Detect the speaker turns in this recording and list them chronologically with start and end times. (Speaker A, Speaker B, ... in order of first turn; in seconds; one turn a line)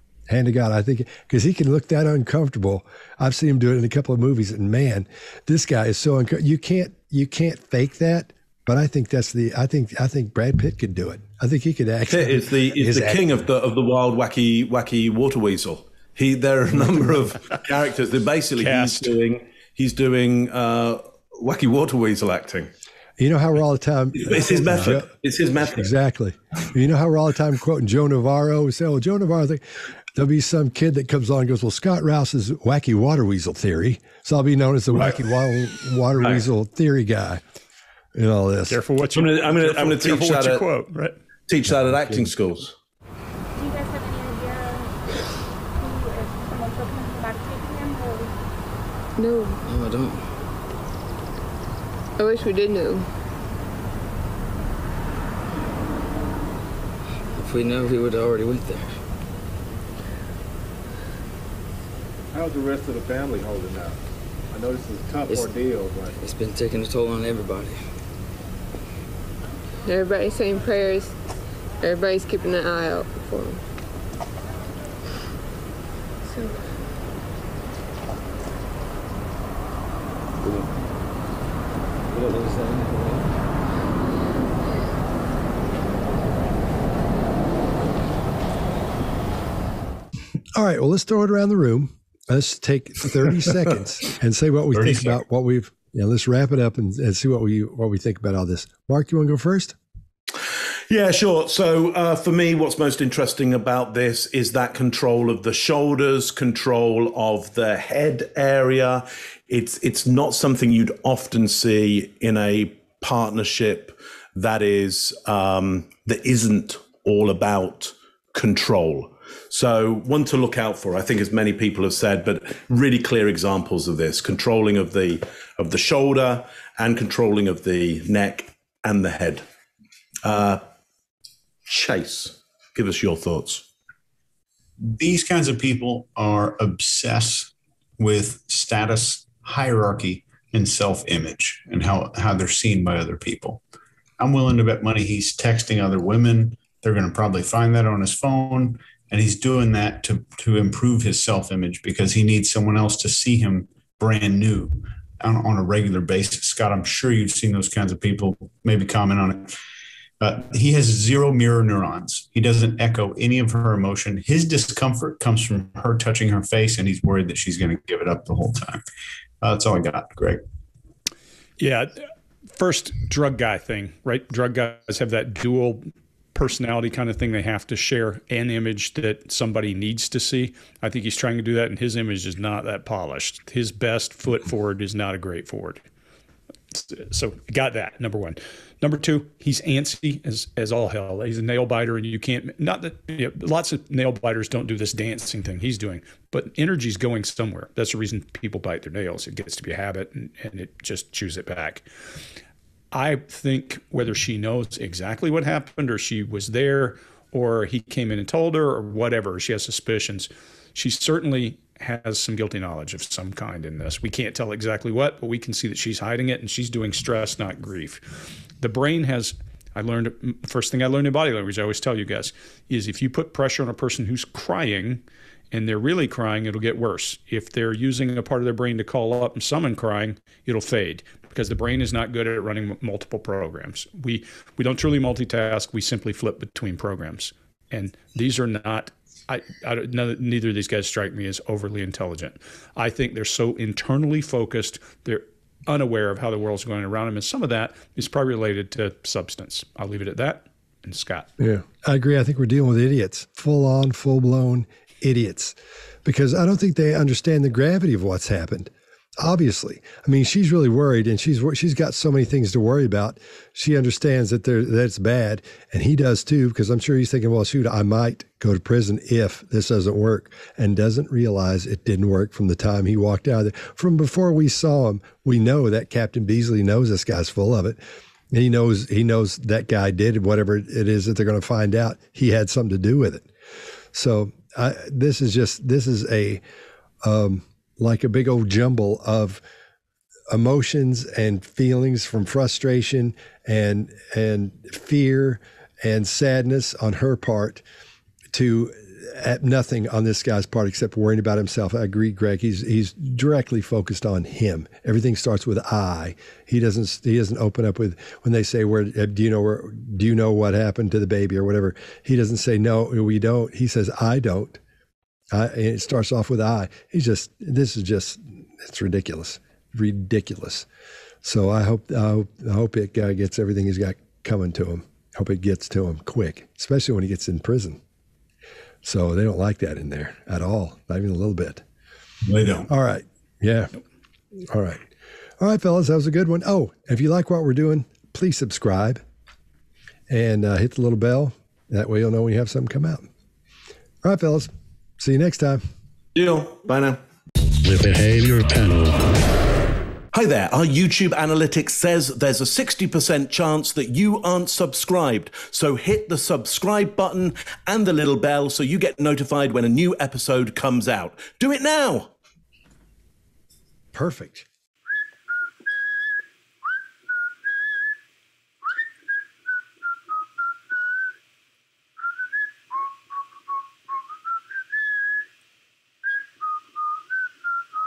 Speaker A: 0.3-13.3
Speaker B: 12.1-22.7
Speaker A: 16.7-17.0
Speaker C: 18.6-19.1
Speaker A: 23.2-29.6
Speaker B: 24.1-25.9
Speaker A: 30.1-37.4
Speaker C: 34.9-35.2
Speaker C: 36.2-36.5
Speaker A: 38.1-38.8
Speaker C: 38.7-41.2
Speaker B: 39.1-40.6
Speaker B: 41.5-42.7
Speaker D: 43.5-45.0
Speaker D: 45.8-48.4
Speaker E: 49.2-49.6
Speaker F: 49.7-50.3
Speaker E: 52.2-53.1
Speaker F: 57.4-59.0
Speaker G: 62.3-64.0
Speaker G: 64.5-66.2
Speaker F: 65.3-65.5
Speaker F: 66.2-67.8
Speaker E: 69.9-71.2
Speaker E: 71.8-73.6
Speaker E: 76.2-76.6
Speaker A: 90.6-99.8
Speaker H: 94.7-95.2
Speaker B: 100.9-129.4
Speaker B: 130.2-130.6
Speaker B: 131.7-133.7
Speaker H: 134.8-143.6
Speaker H: 144.2-159.5
Speaker H: 160.2-168.8
Speaker H: 169.4-170.4
Speaker C: 171.6-172.0
Speaker C: 172.5-185.8
Speaker C: 186.7-201.8
Speaker C: 202.9-251.3
Speaker A: 251.4-277.8
Speaker A: 278.3-283.3
Speaker A: 283.9-286.4
Speaker A: 287.0-289.4
Speaker A: 290.3-297.6
Speaker A: 298.3-314.6
Speaker A: 315.3-320.7
Speaker A: 321.2-327.8
Speaker A: 328.8-331.6
Speaker H: 332.2-332.7
Speaker A: 332.7-333.8
Speaker A: 334.4-339.0
Speaker A: 340.1-343.1
Speaker A: 344.0-345.6
Speaker B: 346.1-347.0
Speaker B: 347.6-348.9
Speaker B: 350.1-362.1
Speaker A: 363.9-364.5